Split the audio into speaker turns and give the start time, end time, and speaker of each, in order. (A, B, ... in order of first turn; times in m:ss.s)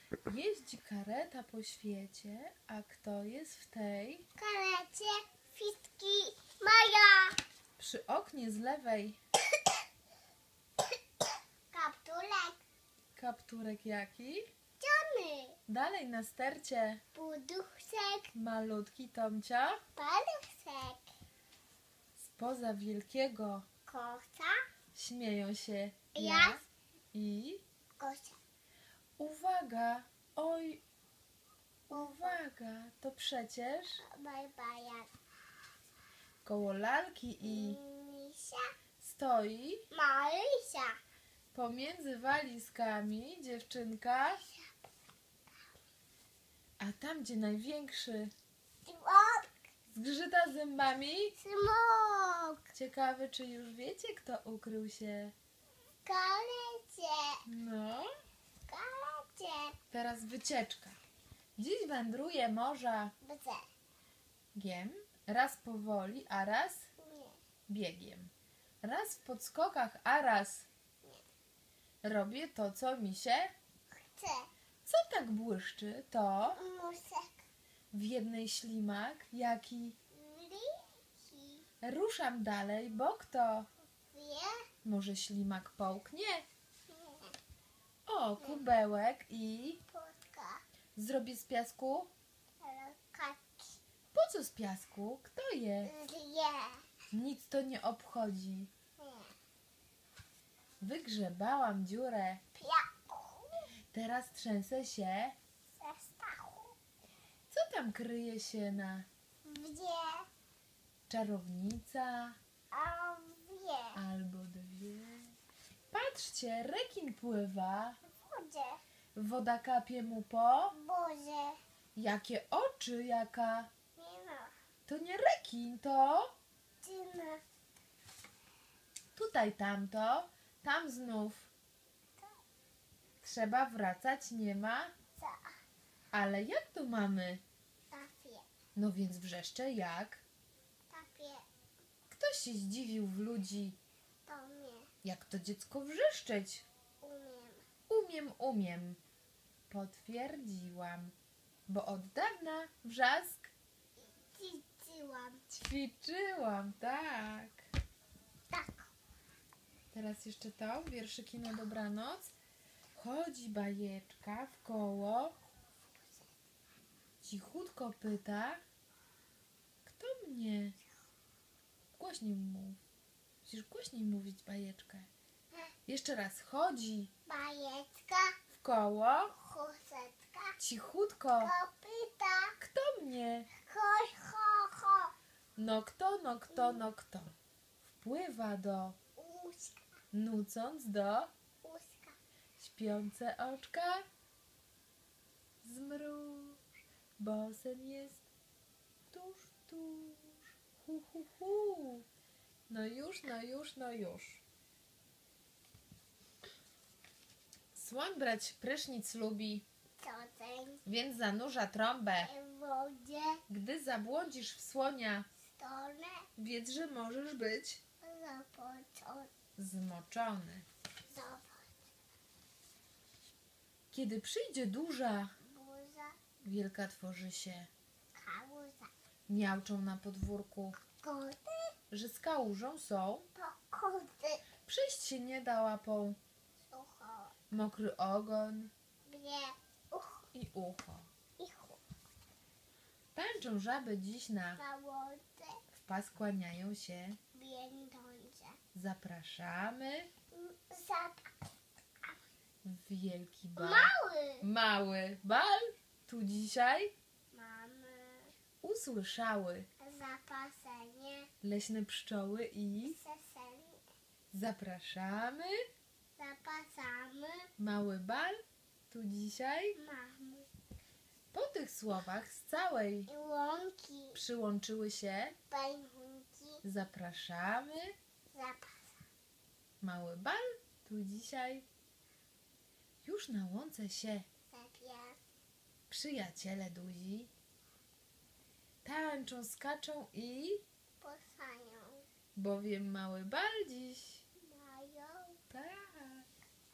0:00.3-0:04.3 A
0:04.4-0:07.4 B
0:07.8-0:09.2 A
0:11.7-0:12.6 B
0:13.2-0:14.5 A
0:14.8-0:15.6 B
0:15.7-0:17.0 A
0:17.1-0:18.3 B
0:18.3-0:19.8 A
0:20.0-0:21.0 B
0:22.2-0:23.7 A
0:23.9-0:24.6 B
0:25.0-0:26.6 A
0:26.2-0:26.6 B
0:27.1-0:27.6 A
0:28.0-0:28.4 B
0:29.2-0:30.8 A
0:31.9-0:34.0 A
0:31.9-0:32.4 B
0:34.1-0:35.1 B
0:36.4-0:37.8 A
0:37.4-0:38.7 B
0:39.0-0:39.8 A
0:39.9-0:41.0 B
0:41.5-0:44.4 A
0:44.3-0:44.8 B
0:46.8-0:48.3 A
0:48.9-0:49.5 B
0:49.9-0:51.4 A
0:51.4-0:52.6 B
0:52.7-0:55.3 A
0:56.0-0:57.4 B
0:57.5-0:58.1 A
0:58.7-0:59.8 B
0:59.9-1:01.0 A
1:01.6-1:03.1 A
1:03.2-1:03.7 B
1:04.6-1:06.9 A
1:07.0-1:07.4 B
1:07.7-1:08.3 A
1:08.8-1:10.7 A
1:12.0-1:13.5 A
1:14.0-1:14.5 B
1:14.8-1:16.6 A
1:16.5-1:17.4 B
1:17.9-1:20.0 A
1:20.1-1:21.7 B
1:21.8-1:23.7 A
1:24.1-1:24.7 B
1:24.8-1:26.5 A
1:26.9-1:27.4 B
1:28.1-1:29.8 A
1:28.4-1:28.7 B
1:29.9-1:30.6 B
1:31.0-1:32.1 A
1:32.6-1:33.8 B
1:34.1-1:35.9 A
1:35.8-1:36.8 B
1:37.1-1:38.7 A
1:39.0-1:39.3 B
1:40.8-1:42.4 A
1:42.6-1:43.6 B
1:43.9-1:45.4 A
1:45.8-1:46.8 B
1:47.5-1:49.1 A
1:49.4-1:50.3 B
1:51.1-1:52.4 A
1:52.7-1:54.0 B
1:54.0-1:55.3 A
1:55.9-1:58.0 A
1:58.2-1:58.8 B
1:59.2-2:00.7 A
2:00.7-2:01.6 B
2:02.0-2:03.7 A
2:04.0-2:04.5 B
2:04.9-2:06.3 A
2:06.8-2:07.4 B
2:09.2-2:11.5 A
2:13.2-2:14.9 A
2:15.2-2:15.5 B
2:16.1-2:17.4 A
2:17.9-2:18.4 B
2:18.8-2:20.2 A
2:20.9-2:21.4 B
2:22.1-2:23.8 A
2:24.3-2:24.9 B
2:25.0-2:26.6 A
2:27.0-2:27.7 B
2:27.9-2:29.0 A
2:29.7-2:31.1 A
2:31.7-2:33.5 A
2:34.2-2:35.6 B
2:35.5-2:37.6 A
2:38.5-2:38.9 B
2:39.9-2:42.3 A
2:43.0-2:45.4 A
2:46.0-2:46.3 B
2:47.2-2:48.6 A
2:49.8-2:50.8 A
2:52.0-2:52.8 A
2:53.4-2:55.1 A
2:55.9-2:57.1 A
2:57.3-2:58.4 B
2:58.5-2:59.3 A
2:59.3-3:00.6 B
3:00.6-3:01.5 A
3:01.4-3:02.6 B
3:02.6-3:03.5 A
3:03.6-3:05.1 B
3:05.6-3:07.4 A
3:06.5-3:06.9 B
3:07.9-3:09.0 A
3:09.2-3:10.0 B
3:10.1-3:11.3 A
3:11.6-3:12.2 B
3:12.6-3:14.1 A
3:15.6-3:16.6 A
3:17.2-3:18.2 A
3:19.1-3:22.0 A
3:22.7-3:24.4 A
3:27.8-3:29.7 A
3:30.0-3:30.8 B
3:30.9-3:32.3 A
3:32.2-3:33.4 B
3:33.5-3:35.3 A
3:35.6-3:36.3 B
3:36.4-3:37.8 A
3:38.0-3:39.3 B
3:39.6-3:40.6 A
3:41.1-3:41.8 B
3:43.9-3:45.3 A
3:45.4-3:46.2 B
3:46.4-3:47.7 A
3:48.2-3:48.9 B
3:49.3-3:50.8 A
3:50.9-3:51.8 B
3:51.9-3:53.3 A
3:53.4-3:54.5 B
3:54.6-3:56.2 A
3:56.7-3:57.4 B
3:57.5-3:58.7 A
3:59.1-4:00.3 B
4:00.3-4:01.1 A
4:01.4-4:01.8 B
4:03.2-4:04.6 A
4:04.6-4:05.6 B
4:05.8-4:07.2 A
4:07.3-4:08.6 B
4:08.7-4:10.1 A
4:10.3-4:11.4 B
4:12.6-4:16.9 A
4:13.6-4:14.5 B
4:17.3-4:18.3 B
4:18.6-4:19.7 A
4:19.8-4:21.3 B
4:21.4-4:23.0 A
4:22.8-4:23.8 B
4:24.3-4:25.6 A
4:26.2-4:27.5 B
4:27.6-4:29.8 A
4:29.8-4:30.5 B
4:31.3-4:33.1 A
4:33.1-4:34.2 B
4:34.2-4:35.4 A
4:35.5-4:36.6 B
4:36.6-4:38.0 A
4:38.3-4:39.0 B
4:39.8-4:41.7 A
4:43.0-4:44.3 A
4:44.5-4:45.2 B
4:45.9-4:47.3 A
4:48.8-4:50.6 A
4:51.0-4:52.0 B
4:52.4-4:54.2 A
4:54.4-4:55.4 B
4:55.5-4:56.3 A